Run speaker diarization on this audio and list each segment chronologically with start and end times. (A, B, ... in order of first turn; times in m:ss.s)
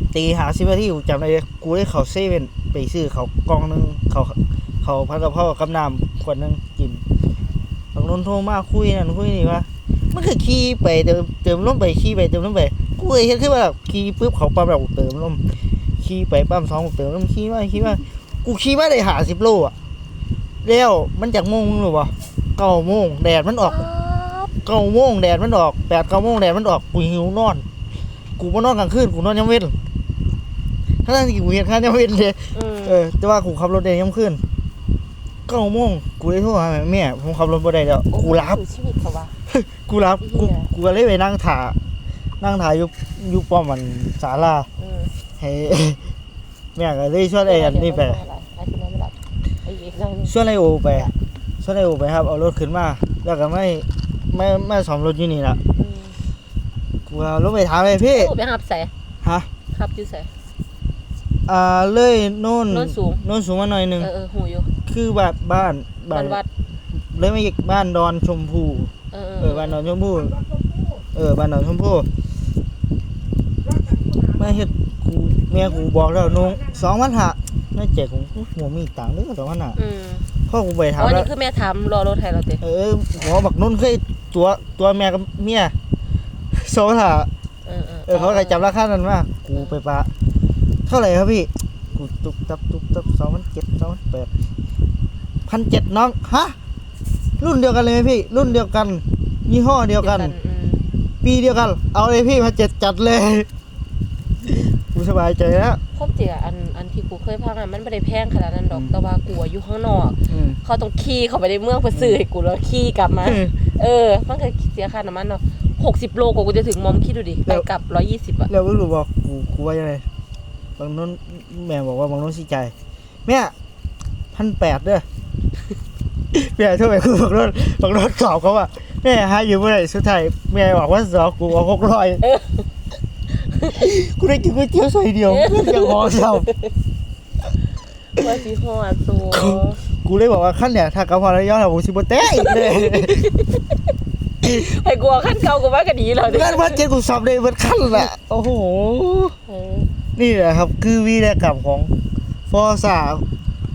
0:00.1-0:07.0 A
0:07.9-0:15.4 A
0:16.0-0:19.7 A
0:20.6-0:23.8 A
0:23.6-0:24.5 B
0:24.6-0:27.6 A
0:28.4-0:29.8 A
0:31.0-0:34.4 A
0:32.5-0:33.0 B
0:35.5-0:38.6 A
0:38.1-0:39.4 B
0:39.5-0:41.8 A
0:40.2-0:40.7 B
0:42.4-0:44.7 A
0:44.8-0:45.1 B
0:45.4-0:46.0 A
0:46.8-0:48.2 A
0:47.4-0:50.4 B
0:50.3-0:55.6 A
0:55.8-0:56.2 B
0:57.1-0:58.3 A
0:58.1-0:58.9 B
0:59.2-0:59.5 A
0:59.7-1:00.3 B
1:01.5-1:04.1 A
1:02.7-1:03.2 B
1:04.0-1:04.7 B
1:04.9-1:06.4 A
1:06.1-1:06.5 B
1:06.9-1:12.1 A
1:09.1-1:09.8 B
1:14.2-1:19.8 A
1:19.8-1:20.3 B
1:20.5-1:21.3 A
1:21.0-1:22.6 B
1:22.6-1:25.7 A
1:26.5-1:27.3 A
1:27.6-1:28.8 B
1:28.1-1:30.1 A
1:29.5-1:29.8 B
1:30.9-1:34.3 A
1:35.5-1:36.6 A
1:37.4-1:40.3 A
1:40.0-1:40.8 B
1:41.2-1:43.5 A
1:44.5-1:45.8 A
1:45.9-1:58.5 B
1:50.3-1:50.6 A
1:51.9-1:52.2 A
1:53.2-1:53.5 A
1:58.5-2:00.0 A
2:00.8-2:02.7 A
2:03.3-2:03.5 A
2:04.3-2:05.0 A
2:06.3-2:12.3 A
2:12.2-2:12.7 B
2:13.3-2:13.8 B
2:13.7-2:16.5 A
2:15.3-2:16.7 B
2:18.2-2:19.8 B
2:19.3-2:23.2 A
2:22.2-2:23.8 B
2:24.4-2:26.8 B
2:26.2-2:29.4 A
2:29.5-2:29.9 B
2:30.2-2:31.9 A
2:32.5-2:33.2 A